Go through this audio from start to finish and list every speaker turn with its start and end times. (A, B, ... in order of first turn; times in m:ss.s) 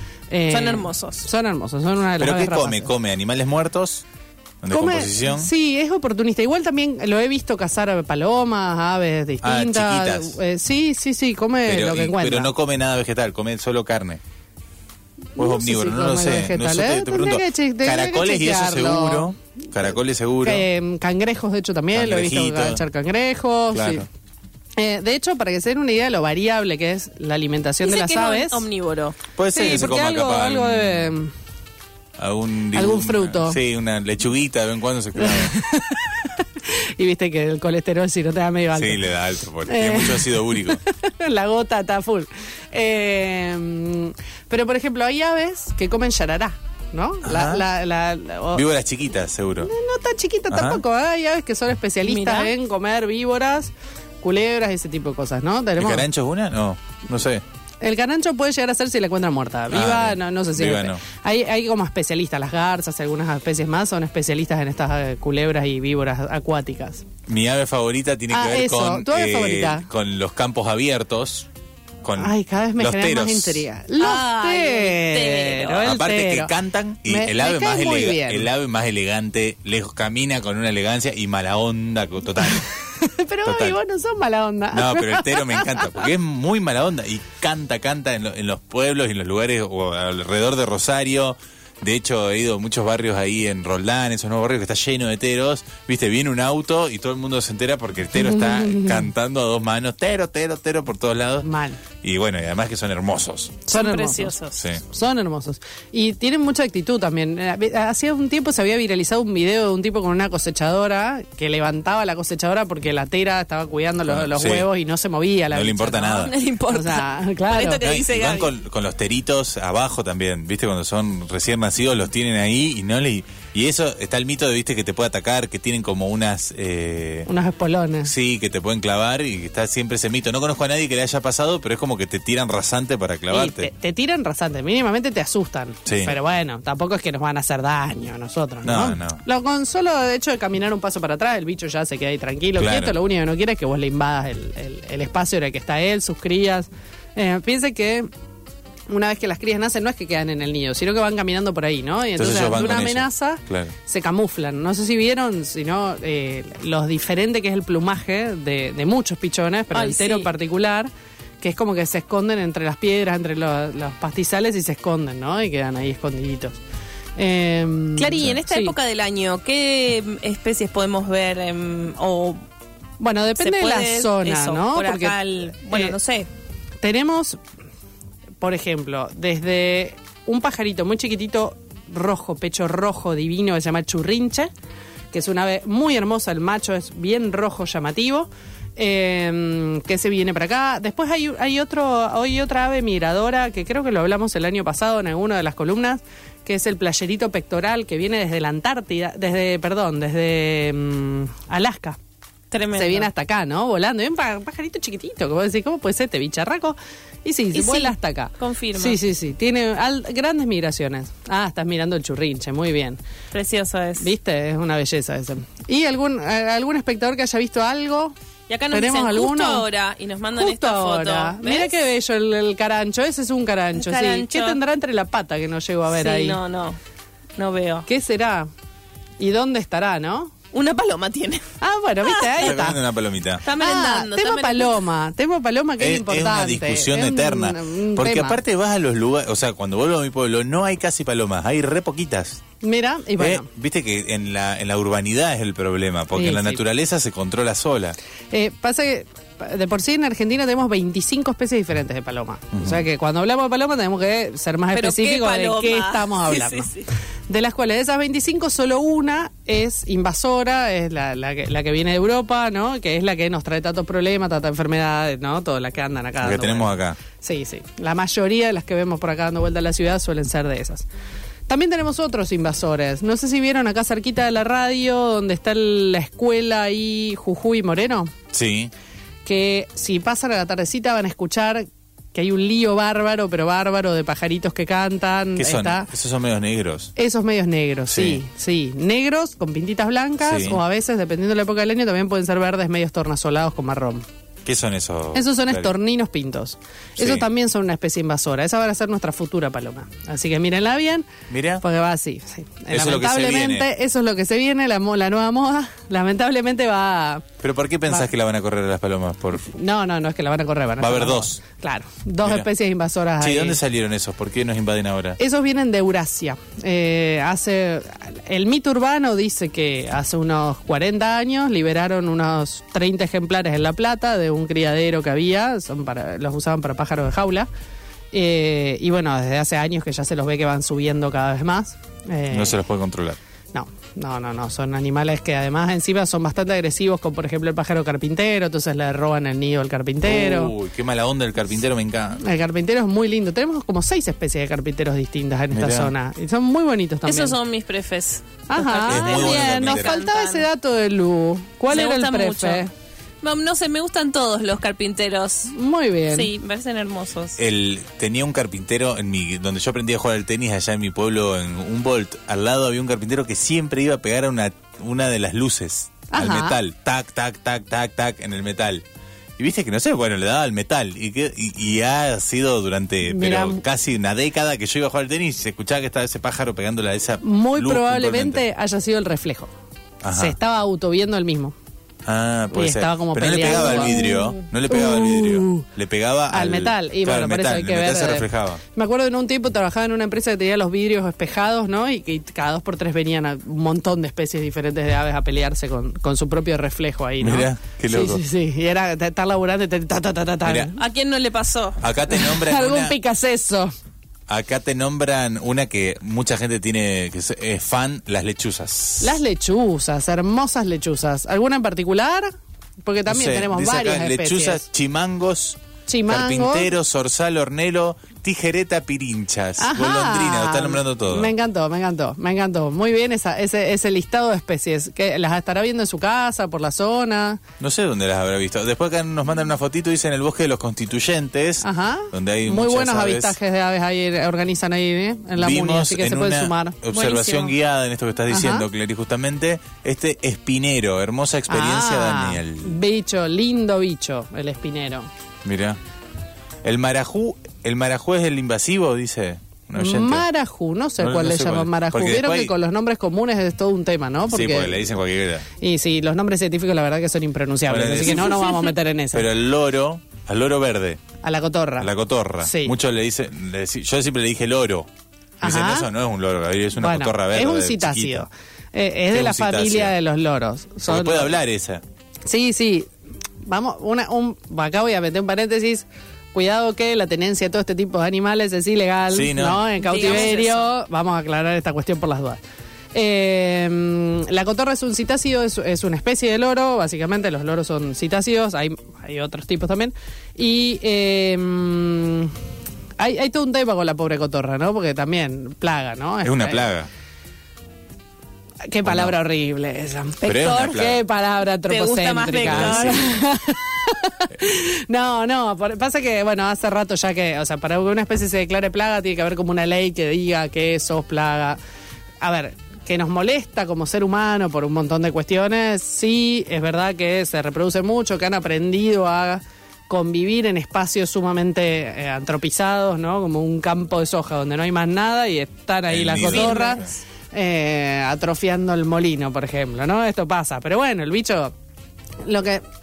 0:00.3-0:02.9 A
0:00.5-0:01.3 B
0:02.2-0:04.0 C
0:04.6-0:05.5 C
0:04.7-0:12.5 A
0:09.4-0:10.4 C
0:11.7-0:14.2 C
0:15.4-0:19.3 A
0:15.4-0:20.7 C
0:20.4-0:24.1 A
0:21.9-0:22.8 C
0:23.7-0:24.1 C
0:24.8-0:28.6 A
0:27.8-0:29.2 B
0:29.4-0:31.2 C
0:29.5-0:31.3 A
0:32.2-0:35.6 C
0:32.7-0:33.6 A
0:35.2-0:39.0 A
0:38.7-0:40.8 C
0:39.7-0:48.6 A
0:47.2-0:47.6 C
0:48.5-0:49.7 C
0:49.6-0:56.1 A
0:50.5-0:50.8 C
0:52.0-0:52.5 B
0:55.8-0:57.4 C
0:57.8-1:07.0 A
0:59.7-1:01.0 C
1:07.3-1:11.5 C
1:08.3-1:09.9 A
1:12.0-1:13.6 C
1:12.2-1:18.5 A
1:14.0-1:15.9 B
1:15.8-1:22.7 C
1:22.4-1:26.0 A
1:23.4-1:23.8 C
1:24.7-1:41.5 C
1:38.2-1:39.1 A
1:41.4-1:41.8 A
1:42.0-1:43.6 C
1:43.7-1:57.8 A
1:43.7-1:44.6 B
1:44.5-1:44.8 C
1:54.1-1:54.7 C
1:55.5-1:56.3 C
1:56.1-1:58.5 B
1:57.8-2:07.3 C
2:07.3-2:08.1 A
2:08.0-2:13.7 C
2:13.3-2:28.1 A
2:15.8-2:16.2 C
2:18.6-2:19.2 C
2:22.6-2:23.0 C
2:28.9-2:40.9 A
2:32.2-2:33.7 C
2:39.7-2:40.3 B
2:41.4-2:46.6 A
2:47.2-2:48.8 A
2:48.0-2:52.4 B
2:53.0-2:56.0 A
2:53.4-2:56.3 B
2:56.8-2:57.4 A
2:58.4-3:04.5 A
3:05.1-3:22.0 A
3:22.5-3:23.1 B
3:22.7-3:33.0 A
3:27.5-3:29.0 B
3:33.3-3:34.1 B
3:34.0-3:38.2 A
3:38.5-3:41.8 B
3:38.7-3:39.7 A
3:40.4-3:46.4 A
3:43.8-3:44.6 B
3:45.9-3:46.8 B
3:47.4-3:47.9 B
3:47.9-3:48.5 A
3:49.2-3:50.3 A
3:50.5-3:51.5 B
3:51.6-3:52.8 A
3:52.0-3:52.5 B
3:52.4-3:53.5 C
3:53.4-3:54.8 B
3:53.6-3:58.4 A
3:55.8-4:02.4 C
4:02.6-4:03.5 A
4:03.2-4:08.0 C
4:06.1-4:06.6 A
4:08.3-4:16.7 A
4:12.5-4:12.8 C
4:14.7-4:16.9 B
4:17.3-4:30.9 A
4:26.2-4:27.0 C
4:31.5-4:38.1 A
4:38.3-4:38.7 C
4:39.2-4:45.9 A
4:45.4-4:46.9 C
4:47.0-4:54.0 A
4:47.9-4:48.2 C
4:50.2-4:50.6 C
4:54.4-4:55.7 C
4:55.1-5:01.1 A
4:57.0-4:57.2 C
5:01.3-5:01.6 C
5:01.6-5:07.3 A
5:02.7-5:03.7 C
5:07.4-5:09.5 C
5:09.5-5:13.6 A
5:10.8-5:11.4 C
5:12.2-5:12.5 C
5:13.2-5:15.2 C
5:15.2-5:27.5 A
5:28.1-5:32.6 A
5:32.3-5:33.2 C
5:33.5-5:40.5 A
5:40.0-5:42.2 C
5:42.2-5:47.4 A
5:45.5-5:45.9 C
5:47.1-5:50.5 B
5:48.5-5:52.7 A
5:48.9-5:49.9 C
5:51.7-5:52.6 B
5:53.2-5:55.5 B
5:55.5-5:56.3 A
5:56.1-5:57.4 B
5:57.4-6:08.8 C
6:06.1-6:06.6 A
6:09.4-6:18.4 C
6:13.0-6:13.6 A
6:17.2-6:19.5 A
6:20.0-6:20.4 C
6:20.1-6:21.5 A
6:22.1-6:28.6 C
6:22.5-6:25.7 A
6:26.3-6:40.8 A
6:37.2-6:38.2 C
6:40.4-6:40.7 C
6:40.8-6:41.8 B
6:41.8-6:43.0 C
6:42.1-6:43.7 A
6:44.3-6:49.2 C
6:49.0-6:52.3 A
6:52.8-6:54.7 A
6:53.1-7:01.3 C
6:55.9-6:56.7 A
6:59.6-7:07.4 A
7:07.6-7:13.4 C
7:11.6-7:16.8 A
7:15.4-7:22.8 C
7:16.9-7:17.6 B
7:18.3-7:18.7 A
7:21.5-7:25.1 A
7:25.4-7:25.8 C
7:26.6-7:30.3 C
7:29.8-7:34.9 A
7:31.0-7:32.5 C
7:34.3-7:35.5 C
7:35.6-7:39.3 A
7:37.7-7:38.6 C
7:39.1-7:41.0 C
7:41.2-7:41.9 A
7:41.8-7:44.9 C
7:42.4-7:42.7 A
7:45.4-7:45.9 A
7:45.4-7:48.3 C
7:46.8-7:51.4 A
7:49.1-7:49.9 C
7:50.9-7:51.8 C
7:52.3-7:52.9 A
7:53.4-8:02.4 A
7:59.1-8:00.4 C
7:59.8-8:00.7 B
8:02.9-8:12.3 A
8:13.0-8:16.7 A
8:16.2-8:16.9 C
8:18.6-8:31.6 A
8:18.8-8:19.2 C
8:20.2-8:21.0 C
8:21.6-8:23.1 B
8:22.4-8:23.1 C
8:32.2-8:51.5 A
8:45.9-8:46.9 C
8:46.3-8:46.9 B
8:52.2-8:52.6 A